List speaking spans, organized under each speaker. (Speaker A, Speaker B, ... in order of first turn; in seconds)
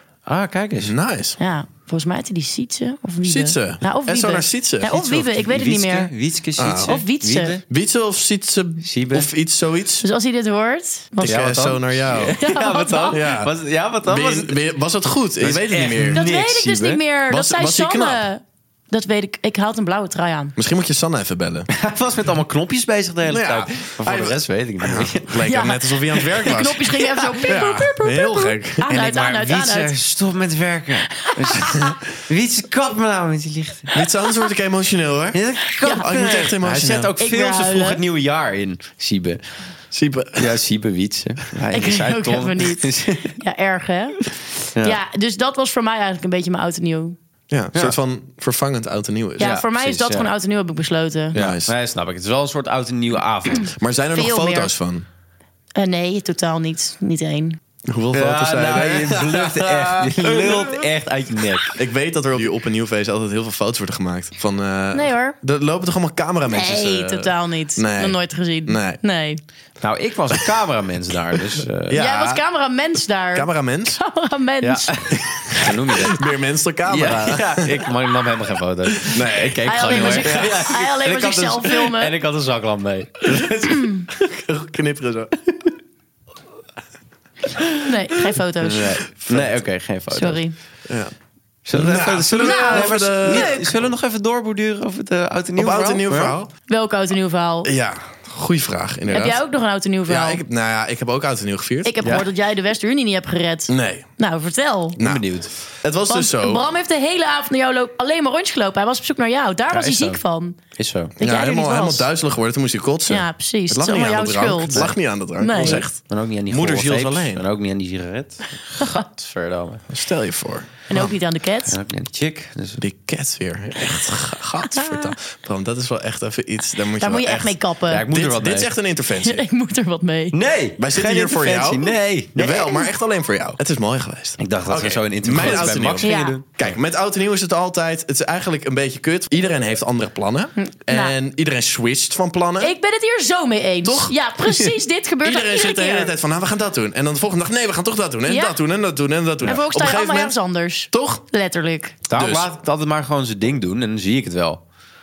Speaker A: 0.2-0.9, 5.0-7.6, 8.8-9.3, 11.2-14.6, 15.4-17.0, 21.7-25.5, 27.2-27.4, 28.9-34.0, 35.3-39.4, 40.4-43.3, 49.4-50.3, 51.3-53.7, 58.1-61.8, 69.8-72.0, 74.6-76.2, 76.8-83.7, 88.6-90.4, 91.6-96.3, 102.0-102.3, 105.0-105.5, 109.7-110.2, 110.8-111.1, 115.5-119.8, 121.7-122.8, 127.9-128.7, 130.3-132.8, 134.4-136.5, 152.1-154.6
Speaker B: 0.8-1.4, 3.2-5.2, 6.6-7.0, 7.7-10.1, 11.2-12.4, 13.1-13.5, 14.0-16.2, 17.3-18.3, 20.6-21.7, 23.2-28.9, 33.9-37.1, 39.9-40.5, 47.5-49.5, 51.3-51.7, 53.8-55.0, 57.9-60.8, 61.7-69.0, 71.9-72.4, 73.3-74.0, 75.4-77.8, 79.0-80.7, 83.3-85.3, 90.9-91.1, 91.7-93.6, 95.5-96.5, 97.6-99.4, 100.1-101.9, 103.7-104.0, 105.0-106.6, 111.2-117.4, 119.9-121.2, 122.8-127.6, 128.1-129.4, 130.8-142.7, 143.8-144.1, 145.2-150.3, 150.9-151.2, 152.1-152.5
Speaker C: 1.4-6.1, 6.8-7.6, 10.0-11.4, 12.3-13.2, 16.1-20.5, 25.4-29.9, 31.2-31.8, 35.8-36.1, 37.2-38.0, 41.7-44.2, 44.8-47.1, 49.4-51.3, 54.1-54.7, 55.8-57.6, 64.9-65.3, 66.5-69.4, 71.9-75.0, 79.6-82.1, 83.6-84.0, 87.8-89.0, 90.1-90.5, 92.4-93.7, 96.7-97.7, 99.1-100.4, 101.8-105.0, 106.1-110.6, 111.2-112.1, 113.1-115.8, 120.9-121.8, 127.0-128.1, 129.2-130.4, 135.4-136.4, 140.6-141.1, 142.6-146.1, 148.3-148.6, 149.4-152.0